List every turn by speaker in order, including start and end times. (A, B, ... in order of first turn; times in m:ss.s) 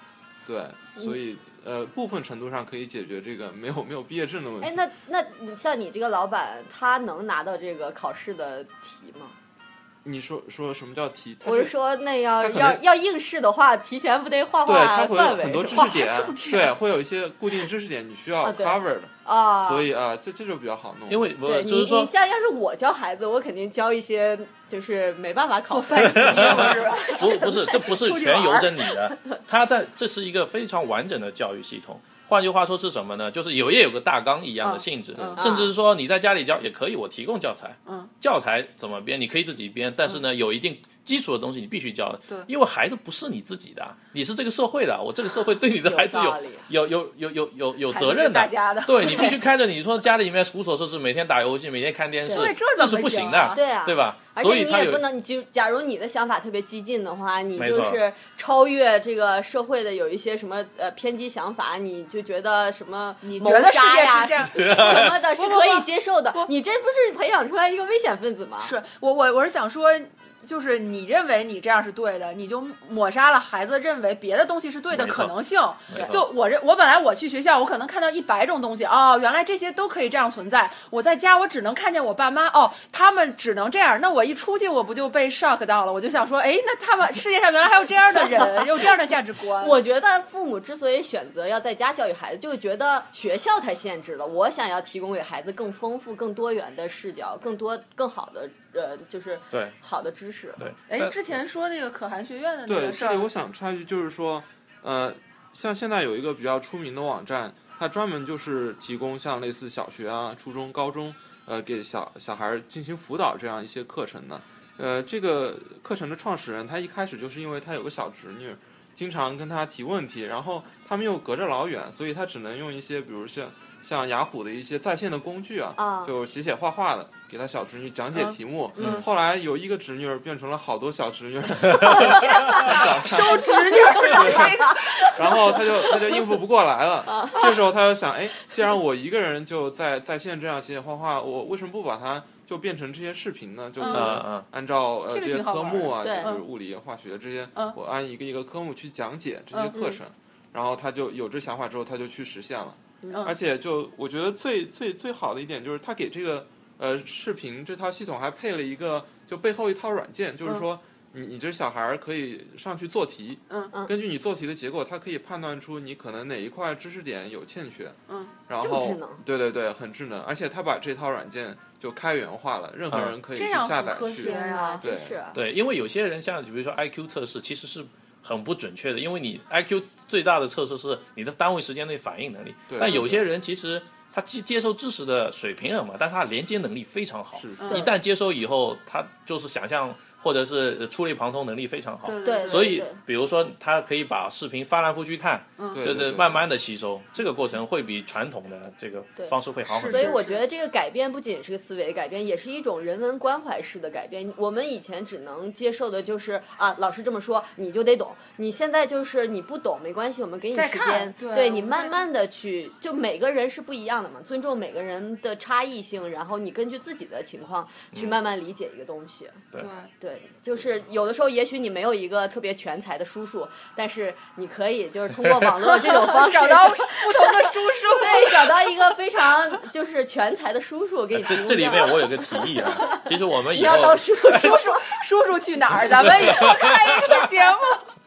0:00.4-0:04.8 A
0:04.6-0:09.4 B
0:10.0-0:11.8 A
0:11.4-0:16.0 B
0:12.4-0:12.8 A
0:14.6-0:21.3 A
0:15.7-0:16.7 C
0:18.4-0:19.9 B
0:21.1-0:22.1 D
0:21.4-0:27.7 B
0:25.7-0:28.8 C
0:26.0-0:55.0 D
0:34.6-0:35.6 C
0:35.4-0:35.7 B
0:37.8-0:38.1 C
0:45.8-0:46.7 B
0:47.9-0:49.4 C
0:49.0-0:49.3 B
0:52.2-0:53.6 C
0:52.3-0:52.5 B
0:53.5-1:08.7 B
0:57.6-0:58.0 D
1:03.2-1:06.5 C
1:04.5-1:05.2 D
1:08.6-1:29.8 C
1:14.9-1:15.3 D
1:15.9-1:16.2 D
1:28.4-1:40.6 B
1:40.6-1:41.1 D
1:40.9-1:43.3 C
1:42.7-2:55.2 A
2:05.8-2:06.1 B
2:08.8-2:09.1 B
2:08.8-2:09.0 D
2:12.0-2:15.2 C
2:14.0-2:15.1 B
2:17.1-2:17.5 B
2:23.8-2:24.1 C
2:23.9-2:24.4 D
2:25.1-2:26.4 C
2:26.0-2:26.4 B
2:29.7-2:30.0 B
2:48.6-2:49.2 B
2:52.9-2:53.2 D
2:53.3-2:54.8 C
2:54.0-2:55.4 B
2:55.3-3:20.2 D
3:02.7-3:03.2 A
3:07.3-3:07.9 A
3:07.6-3:07.9 C
3:12.0-3:12.8 C
3:12.2-3:13.0 B
3:15.6-3:15.8 C
3:15.7-3:16.4 A
3:19.2-3:39.5 B
3:19.7-3:20.4 C
3:30.5-3:32.0 C
3:37.9-3:38.2 D
3:39.6-3:39.9 C
3:40.0-3:54.9 B
3:45.2-3:45.5 D
3:45.6-3:48.7 C
3:51.1-3:54.6 D
3:53.6-3:57.9 C
3:56.0-3:57.2 D